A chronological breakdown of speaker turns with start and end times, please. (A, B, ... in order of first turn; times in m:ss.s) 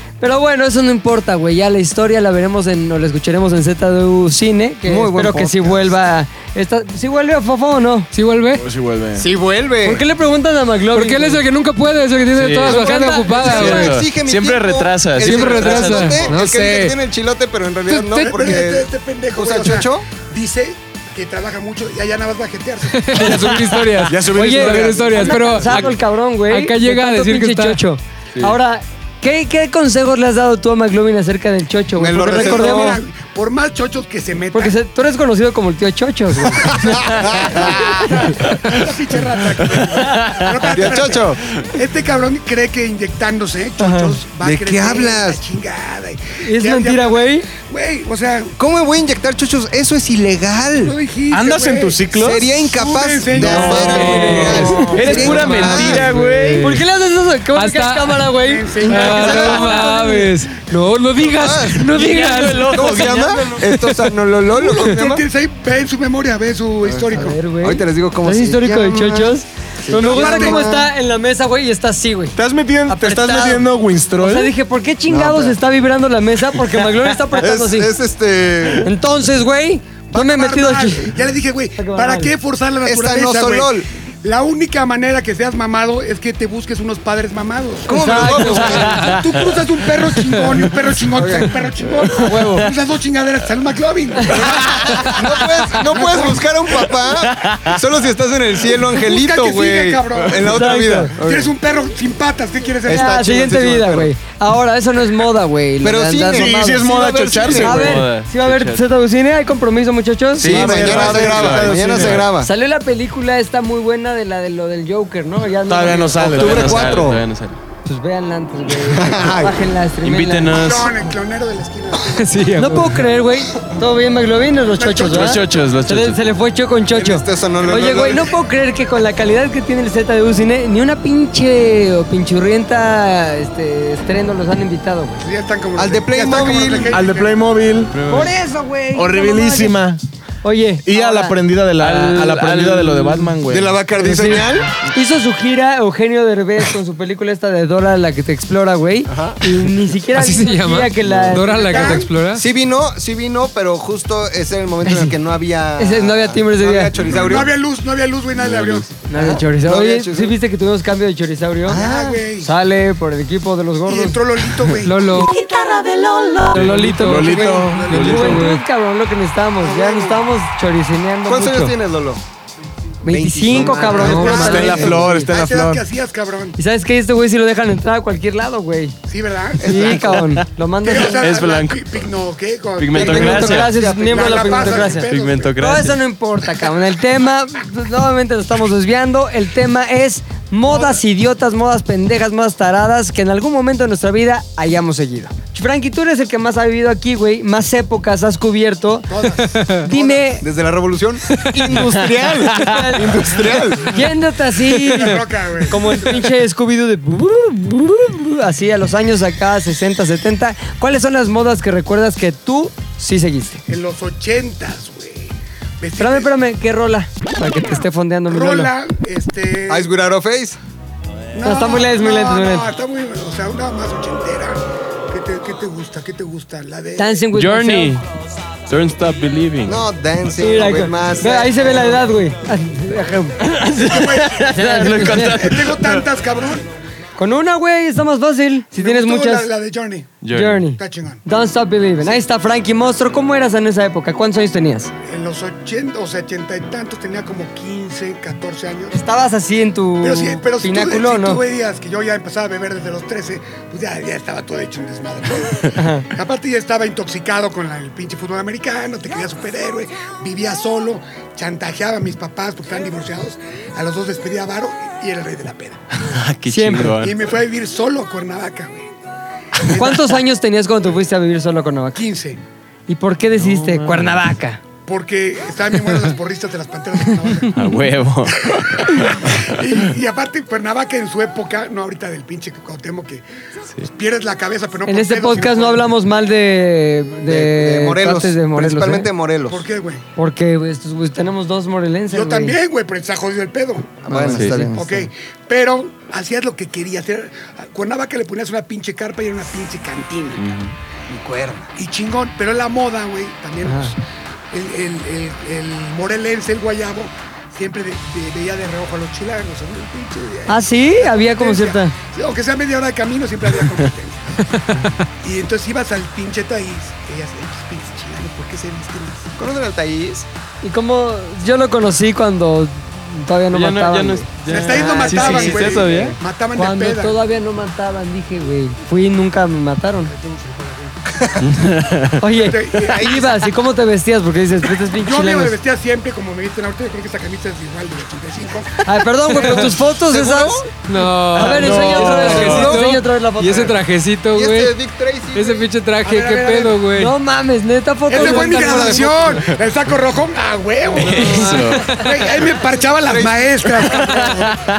0:00.2-0:08.1 A
0:04.8-0:06.0 B
0:08.1-0:08.6 C
0:08.6-0:09.3 D
0:09.2-0:10.0 B
0:09.8-0:11.4 A
0:11.0-0:14.0 C
0:12.4-0:16.4 E
0:12.7-0:13.3 A
0:12.8-0:20.1 B
0:15.2-0:17.0 C
0:17.9-0:18.6 C
0:18.3-0:23.3 F
0:22.9-0:27.8 C
0:23.2-0:33.0 A
0:24.1-0:25.9 D
0:32.0-0:32.9 B
0:32.2-0:34.8 F
0:34.5-0:37.7 A
0:36.7-0:38.3 B
0:37.1-0:48.6 F
0:40.7-0:41.4 B
0:43.8-0:44.2 A
0:44.4-0:45.4 B
0:46.4-0:47.5 A
0:48.6-0:51.0 B
0:50.8-0:55.8 F
0:51.3-0:52.6 D
0:52.1-0:56.2 B
0:53.3-0:56.7 D
0:53.6-0:56.8 C
0:54.0-0:54.9 A
0:55.6-1:00.3 A
0:57.6-0:58.3 C
0:58.4-1:00.0 F
0:58.9-1:02.9 C
0:59.0-0:59.9 B
1:01.2-1:02.0 B
1:01.9-1:03.7 D
1:02.5-1:03.4 E
1:02.7-1:05.2 B
1:04.6-1:07.4 F
1:06.8-1:10.8 B
1:07.1-1:17.9 A
1:10.0-1:10.8 F
1:12.4-1:14.5 D
1:15.1-1:15.6 B
1:17.4-1:18.9 B
1:18.8-1:21.1 A
1:20.1-1:36.5 F
1:21.8-1:22.3 A
1:22.8-1:23.9 B
1:27.9-1:29.4 B
1:27.9-1:29.2 A
1:31.1-1:31.6 B
1:32.3-1:32.6 C
1:32.3-1:32.6 A
1:34.4-1:41.5 B
1:38.8-1:43.5 F
1:40.4-1:41.1 A
1:42.8-1:44.1 B
1:42.9-1:46.9 A
1:45.8-1:47.9 B
1:46.3-1:48.1 D
1:47.2-1:48.8 E
1:47.5-1:51.2 A
1:50.4-1:52.2 D
1:50.4-1:52.5 B
1:50.5-1:52.2 E
1:52.3-1:56.8 A
1:55.7-1:57.2 D
1:56.2-1:57.6 E
1:56.2-1:57.2 B
1:57.8-2:00.6 A
1:58.7-1:59.6 B
2:00.0-2:01.1 E
2:00.5-2:02.3 F
2:02.0-2:03.0 C
2:02.6-2:15.2 A
2:04.7-2:05.6 F
2:05.1-2:06.2 E
2:06.9-2:08.4 B
2:15.2-2:17.4 F
2:15.8-2:17.0 B
2:16.9-2:18.2 D
2:17.9-2:18.3 E
2:18.1-2:19.8 A
2:18.9-2:20.0 D
2:20.4-2:23.3 A
2:20.8-2:23.9 D
2:21.8-2:22.8 E
2:23.5-2:24.7 B
2:24.0-2:32.1 A
2:30.1-2:32.4 C
2:31.1-2:31.4 B
2:31.7-2:32.1 F
2:32.3-2:37.6 B
2:35.8-2:37.0 A
2:37.0-2:38.9 F
2:39.1-2:41.8 A
2:39.1-2:40.4 B
2:41.6-2:42.3 B
2:41.7-2:42.5 F
2:42.4-2:44.2 A
2:43.8-2:45.3 F
2:44.8-2:45.3 C
2:45.4-2:45.8 A
2:46.3-2:51.8 A
2:46.5-2:48.4 D
2:46.7-2:47.3 C
2:47.4-2:48.4 B
2:47.9-2:48.6 C
2:49.6-2:50.2 F
2:51.3-2:52.2 B
2:53.0-2:55.3 A
2:53.1-2:55.0 B
2:53.6-2:55.8 D
2:53.7-2:56.6 F
2:54.0-2:54.5 C
2:56.6-2:59.0 A
2:59.1-3:00.2 F
2:59.6-3:00.4 B
2:59.6-3:01.3 A
3:00.8-3:05.6 F
3:01.1-3:02.0 E
3:02.8-3:03.8 E
3:02.9-3:05.1 B
3:03.0-3:05.0 A
3:05.1-3:06.0 E
3:05.6-3:19.1 A
3:10.7-3:11.0 F
3:19.1-3:20.2 F
3:19.4-3:19.7 C
3:19.8-3:20.4 A
3:20.4-3:24.0 B
3:22.5-3:33.6 A
3:24.8-3:26.2 F
3:33.7-3:36.3 F
3:36.0-3:38.7 A
3:38.3-3:39.9 F
3:39.7-3:40.6 B
3:41.3-3:47.2 F
3:41.4-3:42.7 A
3:47.0-3:48.0 A
3:47.3-3:48.0 E
3:48.7-3:49.8 E
3:49.6-3:52.0 B
3:50.4-3:53.4 A
3:53.4-3:56.0 E
3:53.8-3:56.7 F
3:54.4-3:55.5 A
3:57.2-3:59.5 A
3:58.8-4:00.2 F
4:00.2-4:00.7 E
4:00.3-4:04.9 A
4:00.8-4:01.2 F
4:05.1-4:09.0 F
4:08.9-4:11.4 A
4:10.0-4:25.8 F
4:15.8-4:16.1 A
4:26.0-4:27.2 E
4:26.4-4:27.0 A
4:27.0-4:28.9 F
4:29.6-4:30.2 F
4:29.7-4:32.0 A
4:32.0-4:32.4 F
4:32.9-4:34.6 A
4:33.4-4:34.2 E
4:34.8-4:37.7 F
4:37.5-4:39.3 E
4:38.3-4:43.2 F
4:43.8-4:45.9 F
4:44.9-4:49.1 A
4:47.3-4:49.6 B
4:49.5-4:50.0 F
4:50.2-4:52.6 A
4:52.1-5:00.5 F
4:54.0-4:55.1 B
4:54.1-4:54.7 A
4:54.4-4:54.6 E
5:00.4-5:00.7 E
5:01.1-5:01.7 B
5:01.7-5:04.0 F
5:03.7-5:03.9 A
5:04.5-5:14.5 F
5:10.5-5:12.0 A
5:15.2-5:19.3 F
5:19.4-5:20.3 B
5:20.6-5:30.1 A
5:23.5-5:26.2 E
5:24.5-5:27.2 F
5:30.0-5:31.3 F
5:31.5-5:32.2 E
5:32.2-5:35.6 A
5:32.4-5:33.3 F
5:32.8-5:33.3 B
5:35.0-5:39.8 F
5:38.8-5:40.7 A
5:39.9-5:40.6 B
5:40.9-5:44.8 C
5:41.3-5:43.8 A
5:41.4-5:42.7 D
5:41.7-5:42.8 B
5:44.3-5:45.7 B
5:45.3-5:47.1 C
5:46.0-5:46.8 F
5:46.9-5:49.2 A
5:48.1-5:54.6 F
5:48.3-5:49.3 B
5:51.0-5:52.0 E
5:51.1-5:51.6 A
5:51.5-5:52.1 C
5:53.0-5:54.5 B